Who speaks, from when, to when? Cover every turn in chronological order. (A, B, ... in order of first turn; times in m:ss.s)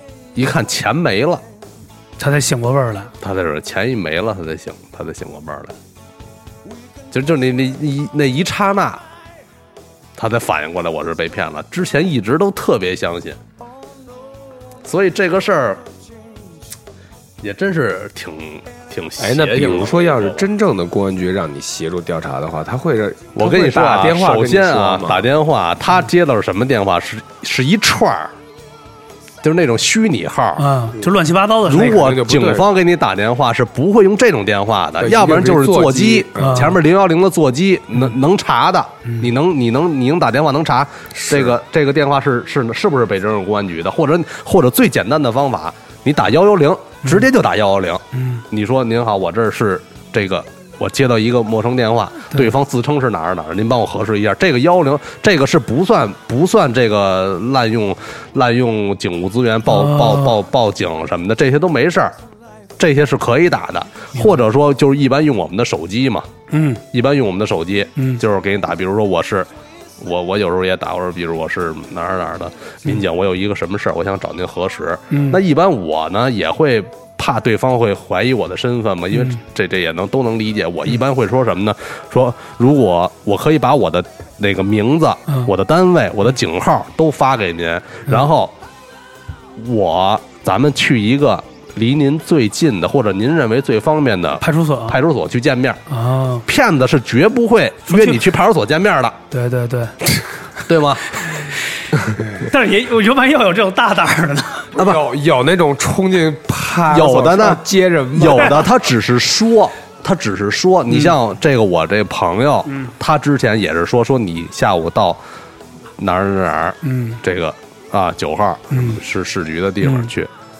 0:00.4-0:01.4 A
0:02.2-0:03.1 B
0:03.2-0:05.7 A
0:07.1-0:09.0 A
0:10.2-0:13.4 A
0:14.8-0:15.8 A
0:17.4-0:20.4 A
0:19.2-0:25.3 C
0:23.4-0:28.3 A
0:29.4-0:30.7 A
0:30.6-0:32.1 B
0:31.7-1:02.1 A
0:31.7-0:32.7 C
0:35.0-0:36.7 C
0:36.4-0:36.8 B
0:41.1-0:41.5 C
0:48.1-0:48.4 B
0:59.7-1:00.4 B
1:02.8-1:06.3 A
1:06.5-1:06.8 B
1:06.9-1:09.5 A
1:10.0-1:28.5 A
1:15.1-1:15.4 B
1:19.1-1:19.4 B
1:29.6-1:35.8 A
1:34.4-1:35.0 B
1:35.9-1:36.4 B
1:36.4-1:39.2 A
1:37.9-1:38.3 B
1:39.3-1:40.0 B
1:40.6-1:41.2 A
1:41.2-1:41.6 B
1:42.2-1:44.7 B
1:44.7-1:48.7 C
1:44.8-1:45.0 A
1:46.9-1:47.6 A
1:48.1-1:55.2 A
1:56.0-2:00.3 A
1:56.8-1:57.2 B
1:58.7-1:59.0 B
1:59.8-2:00.1 B